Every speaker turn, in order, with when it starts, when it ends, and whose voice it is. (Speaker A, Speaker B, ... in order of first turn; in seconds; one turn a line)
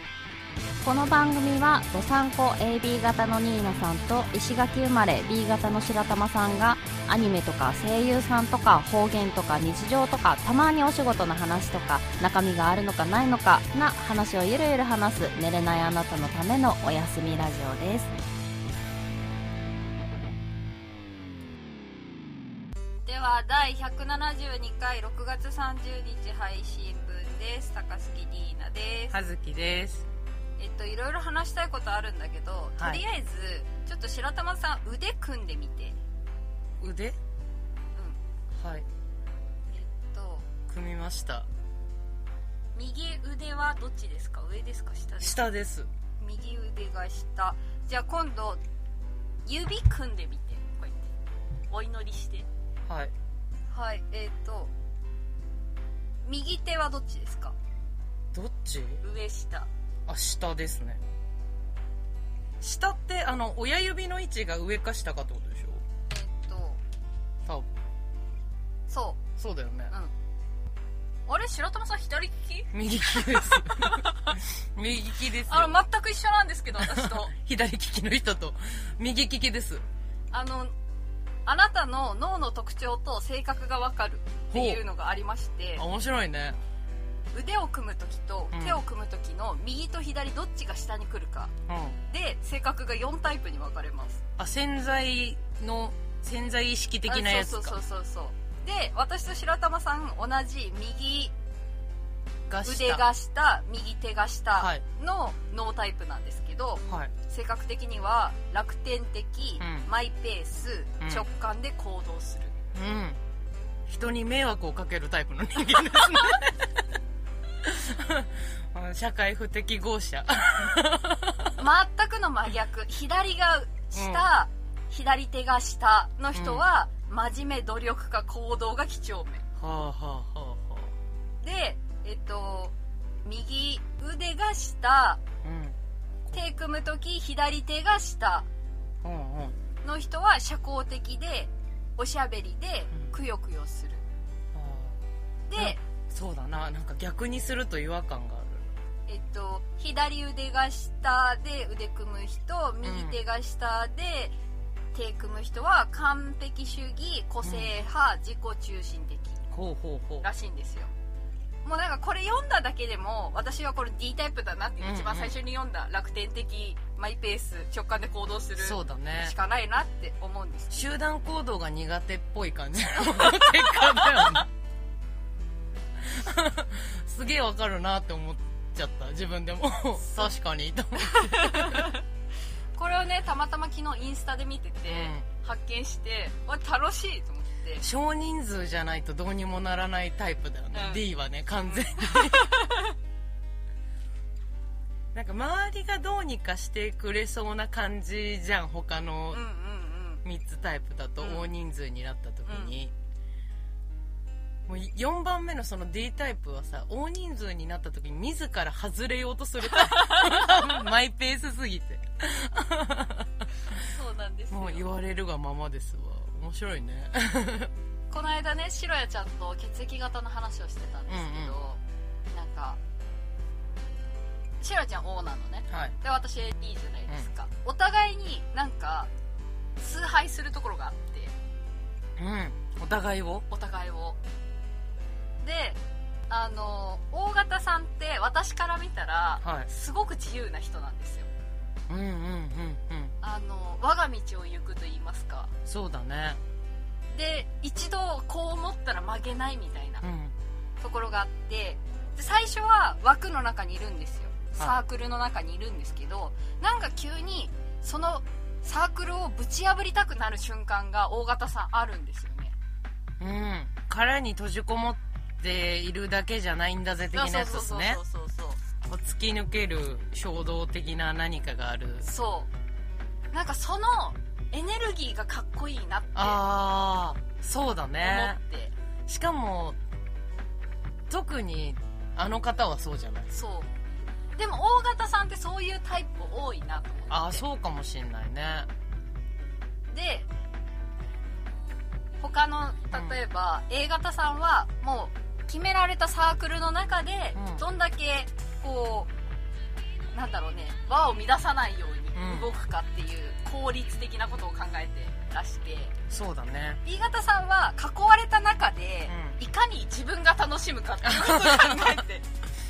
Speaker A: 0.8-18.1
Speaker B: 23.1-29.1
Speaker C: 29.1-30.1
Speaker B: 30.6-36.0
Speaker C: 32.8-33.0
Speaker C: 36.8-37.2
Speaker C: 38.5-38.9
Speaker B: 39.7-40.5
Speaker C: 40.7-41.5
Speaker B: 42.7-45.5
Speaker C: 45.2-45.9
Speaker B: 46.2-48.6
Speaker B: 49.5-51.1
Speaker B: 51.7-52.5
Speaker C: 52.9-53.1
Speaker B: 53.7-54.7
Speaker B: 56.2-57.5
Speaker C: 58.3-59.0
Speaker B: 59.0-59.7
Speaker C: 60.1-61.0
Speaker C: 62.6-65.8
Speaker B: 66.1-66.8
Speaker B: 68.9-69.2
Speaker C: 69.4-69.9
Speaker B: 71.3-74.3
Speaker C: 72.7-75.8
Speaker B: 75.5-77.3
Speaker C: 76.8-79.8
Speaker B: 80.3-80.7
Speaker B: 81.5-85.8
Speaker C: 84.5-84.8
Speaker C: 85.8-86.6
Speaker B: 87.3-91.5
Speaker C: 88.5-88.8
Speaker C: 91.7-92.0
Speaker B: 92.1-94.2
Speaker C: 94.4-97.8
Speaker B: 97.1-101.3
Speaker C: 102.5-103.1
Speaker B: 102.6-112.5
Speaker C: 104.5-104.8
Speaker C: 106.9-107.1
Speaker C: 109.6-109.9
Speaker C: 111.0-111.2
Speaker C: 112.7-113.2
Speaker C: 113.9-116.4
Speaker B: 116.0-116.5
Speaker C: 117.6-121.5
Speaker B: 121.6-129.4
Speaker C: 123.9-124.3
Speaker C: 126.3-126.7
Speaker C: 129.6-130.9
Speaker B: 131.4-135.2
Speaker C: 135.4-136.4
Speaker B: 136.3-138.4
Speaker C: 139.0-139.6
Speaker B: 139.8-144.0
Speaker C: 144.5-145.0
Speaker B: 145.5-145.8
Speaker C: 145.6-148.7
Speaker B: 149.1-154.3
Speaker C: 152.8-153.2
Speaker B: 154.9-159.4
Speaker C: 157.4-157.7
Speaker C: 159.5-160.3
Speaker B: 160.2-160.9
Speaker B: 161.6-170.9
Speaker C: 164.8-165.4
Speaker C: 168.6-169.3
Speaker C: 170.7-174.5
Speaker B: 173.0-174.4
Speaker C: 176.0-181.9
Speaker B: 181.0-182.0
Speaker B: 182.8-187.8
Speaker C: 184.8-185.2
Speaker C: 187.8-192.5
Speaker B: 190.7-191.0
Speaker B: 191.9-192.9
Speaker C: 195.1-199.4
Speaker B: 199.3-200.2
Speaker C: 200.2-202.9
Speaker B: 201.2-201.5
Speaker B: 202.5-202.7
Speaker C: 204.7-213.4
Speaker B: 209.7-210.7
Speaker B: 213.8-214.9
Speaker C: 214.5-217.7
Speaker B: 218.1-221.8
Speaker C: 221.1-221.5
Speaker B: 222.3-222.8
Speaker B: 224.6-229.1
Speaker B: 229.8-231.3
Speaker C: 232.2-233.5
Speaker B: 233.5-234.2
Speaker B: 235.4-241.3
Speaker C: 239.4-239.7
Speaker C: 241.9-243.1
Speaker B: 243.2-245.5
Speaker C: 245.7-246.4
Speaker B: 247.1-250.0
Speaker C: 250.0-250.3
Speaker B: 250.8-262.5
Speaker C: 263.2-268.0
Speaker B: 267.1-268.6
Speaker C: 268.8-272.1
Speaker B: 272.0-272.5
Speaker B: 273.3-276.4
Speaker C: 276.1-278.4
Speaker B: 278.0-278.7
Speaker C: 279.1-279.8
Speaker C: 281.1-283.3
Speaker B: 283.3-283.7
Speaker B: 284.4-287.4
Speaker C: 287.1-288.7
Speaker B: 289.9-290.3
Speaker B: 292.2-299.1
Speaker C: 292.9-293.2
Speaker C: 297.3-297.6
Speaker B: 300.1-305.9
Speaker C: 302.1-302.5
Speaker C: 306.1-306.8
Speaker B: 306.8-312.2
Speaker C: 309.1-309.4
Speaker C: 311.0-312.0